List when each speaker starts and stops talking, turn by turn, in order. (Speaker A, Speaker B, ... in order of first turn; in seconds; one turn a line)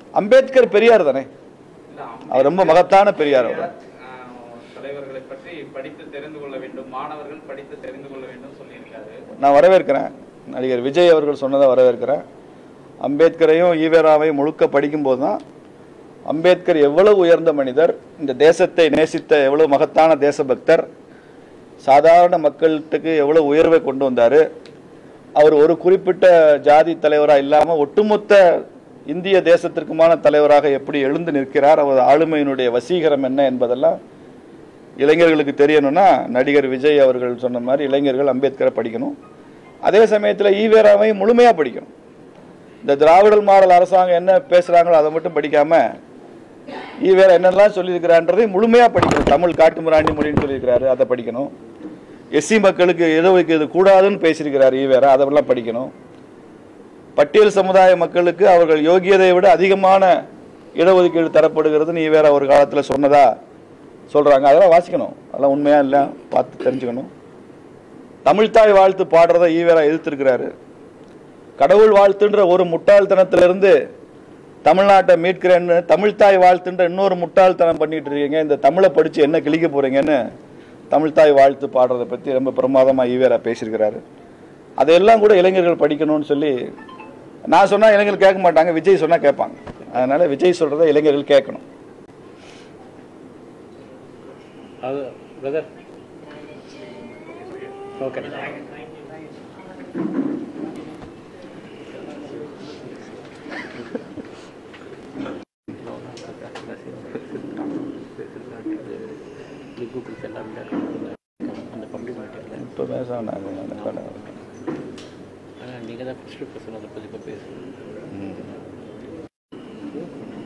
Speaker A: 0.1-1.3
Speaker B: 1.9-9.2
Speaker A: 2.3-3.7
Speaker A: 9.3-12.2
Speaker A: 13.0-15.4
Speaker A: 16.3-20.9
Speaker A: 21.8-24.4
Speaker A: 25.4-34.0
Speaker A: 35.0-39.1
Speaker A: 39.9-41.9
Speaker A: 42.8-45.9
Speaker A: 47.0-51.5
Speaker A: 52.4-55.9
Speaker A: 57.1-60.2
Speaker A: 60.8-63.3
Speaker A: 64.1-67.1
Speaker A: 68.2-70.5
Speaker A: 71.6-73.8
Speaker A: 74.6-80.2
Speaker A: 80.9-84.0
Speaker A: 84.8-86.5
Speaker A: 87.5-91.6
Speaker C: 94.8-95.7
Speaker C: 98.0-98.6
Speaker C: 101.9-103.0
Speaker C: 105.7-109.2
Speaker C: 109.8-112.7
Speaker A: 112.6-114.2
Speaker C: 113.6-114.4
Speaker C: 115.6-117.8
Speaker A: 118.1-118.5